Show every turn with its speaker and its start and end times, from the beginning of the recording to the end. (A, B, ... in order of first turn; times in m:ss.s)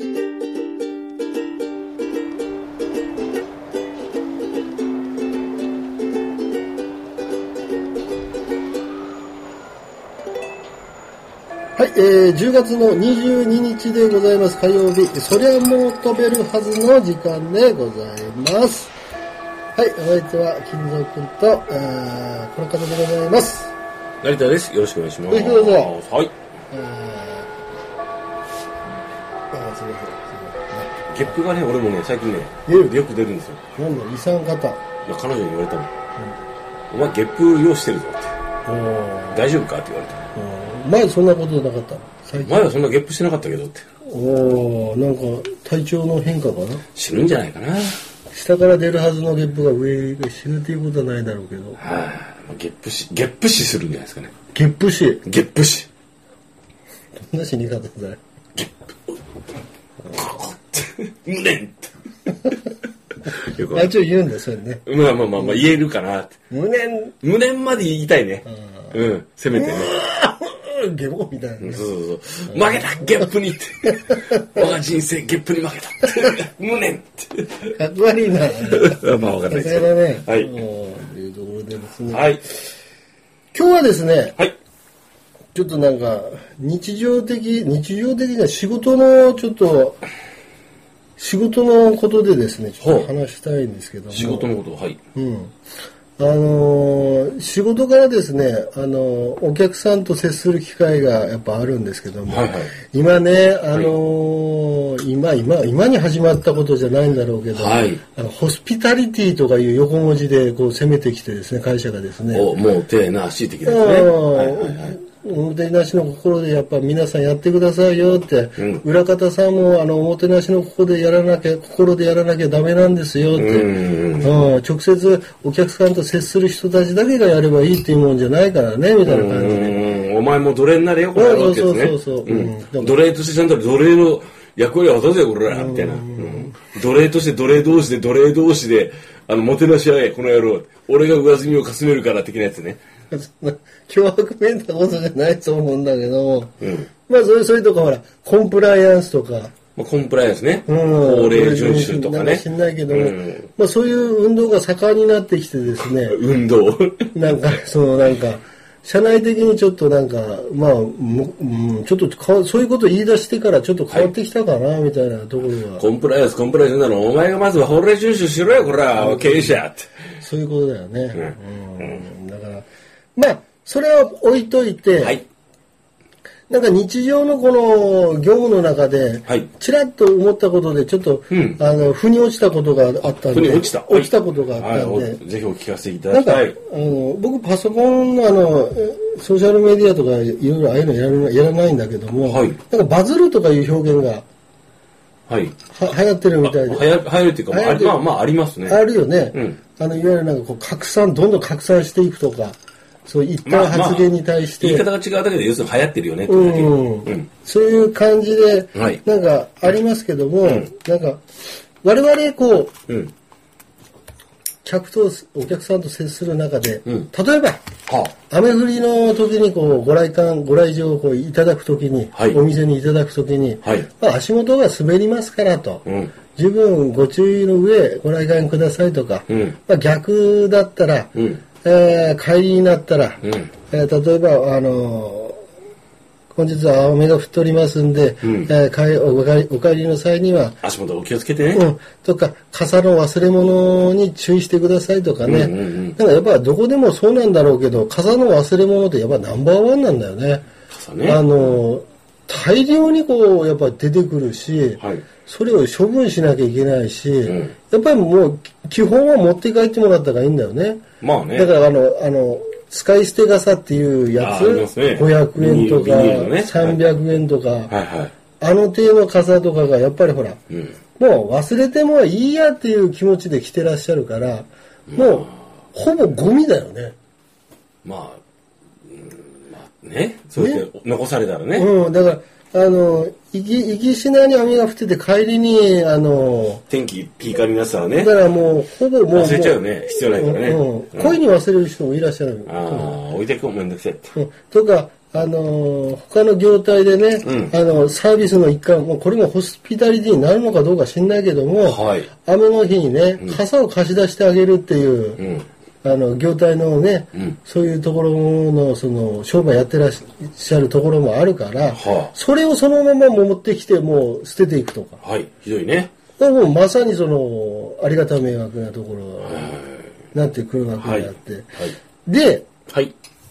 0:11.8-0:19.0 A
0:19.8-0:23.7 A
0:24.2-0:26.3 B
0:25.3-0:25.9 A
0:26.7-0:27.5 A
0:29.5-0:30.9 A
0:31.1-0:33.6 B
0:32.7-0:33.0 A
0:33.7-0:34.8 A
0:35.0-0:35.9 B
0:36.9-0:38.3 B
0:38.7-0:39.4 A
0:39.3-0:40.3 B
0:40.3-0:42.6 A
0:42.4-0:43.9 B
0:44.0-0:46.8 A
0:47.0-0:48.0 B
0:48.3-0:51.8 A
0:51.8-0:54.3 B
0:54.5-0:55.2 A
0:55.2-0:55.9 B
0:57.2-0:58.2 A
1:00.1-1:01.9 B
1:03.3-1:03.9 B
1:03.7-1:04.8 A
1:04.9-1:06.3 B
1:06.5-1:07.2 A
1:07.2-1:10.0 B
1:08.5-1:09.0 A
1:09.6-1:11.8 A
1:11.6-1:17.7 B
1:12.5-1:13.2 A
1:13.9-1:14.7 A
1:17.7-1:19.0 A
1:18.6-1:20.5 B
1:19.5-1:22.4 A
1:22.1-1:22.4 B
1:23.5-1:24.4 A
1:25.5-1:30.0 A
1:31.2-1:34.5 A
1:32.8-1:33.1 B
1:34.1-1:35.0 B
1:35.1-1:35.5 A
1:36.2-1:52.5 A
1:42.3-1:42.7 B
1:47.5-1:48.0 B
1:52.3-1:55.0 B
1:53.7-2:09.8 A
1:58.6-1:58.8 B
2:03.4-2:04.4 B
2:09.0-2:22.8 B
2:11.1-2:13.0 A
2:15.5-2:16.6 A
2:23.1-2:29.6 A
2:26.6-2:26.9 B
2:29.8-2:33.5 B
2:30.7-2:36.2 A
2:35.8-2:37.2 B
2:37.1-2:45.8 A
2:45.8-2:49.9 B
2:49.0-2:49.6 A
2:50.2-2:55.2 A
2:51.2-2:51.9 B
2:55.0-2:55.2 B
2:56.5-3:05.2 A
3:01.3-3:01.6 B
3:03.0-3:06.6 B
3:06.1-3:14.2 A
3:12.2-3:12.6 B
3:15.3-3:15.5 B
3:15.7-3:16.9 A
3:16.4-3:18.8 B
3:17.5-3:18.0 A
3:18.6-3:24.8 A
3:19.3-3:19.6 B
3:23.4-3:27.2 B
3:26.3-3:31.2 A
3:28.8-3:29.0 B
3:30.4-3:30.7 B
3:31.8-3:32.7 A
3:34.6-3:55.4 A
3:37.9-3:38.1 B
3:42.1-3:42.4 B
3:43.6-3:43.9 B
3:45.8-3:46.1 B
3:49.3-3:49.6 B
3:51.2-3:51.4 B
3:53.2-3:53.5 B
3:56.3-4:00.6 A
3:58.2-3:58.5 B
4:00.6-4:01.7 B
4:01.5-4:10.4 A
4:05.2-4:06.0 B
4:10.7-4:11.2 B
4:11.0-4:20.8 A
4:14.8-4:15.0 B
4:17.3-4:17.5 B
4:21.0-4:21.5 B
4:21.3-4:27.8 A
4:24.2-4:26.8 B
4:27.7-4:28.1 B
4:28.4-4:30.4 A
4:30.5-4:30.8 B
4:31.0-4:36.9 A
4:34.9-4:35.3 B
4:37.8-4:38.2 B
4:38.9-4:41.7 B
4:40.4-4:40.7 A
4:41.6-4:46.6 A
4:46.7-4:48.1 B
4:48.0-4:53.0 A
4:49.1-4:51.2 B
4:52.4-4:54.1 B
4:54.1-5:05.2 A
4:57.2-4:57.5 B
5:01.6-5:02.1 B
5:05.2-5:05.4 B
5:05.8-5:15.0 A
5:11.7-5:12.1 B
5:15.0-5:15.9 B
5:16.2-5:19.6 A
5:19.2-5:19.9 B
5:20.1-5:22.5 A
5:20.8-5:21.8 B
5:22.7-5:22.9 B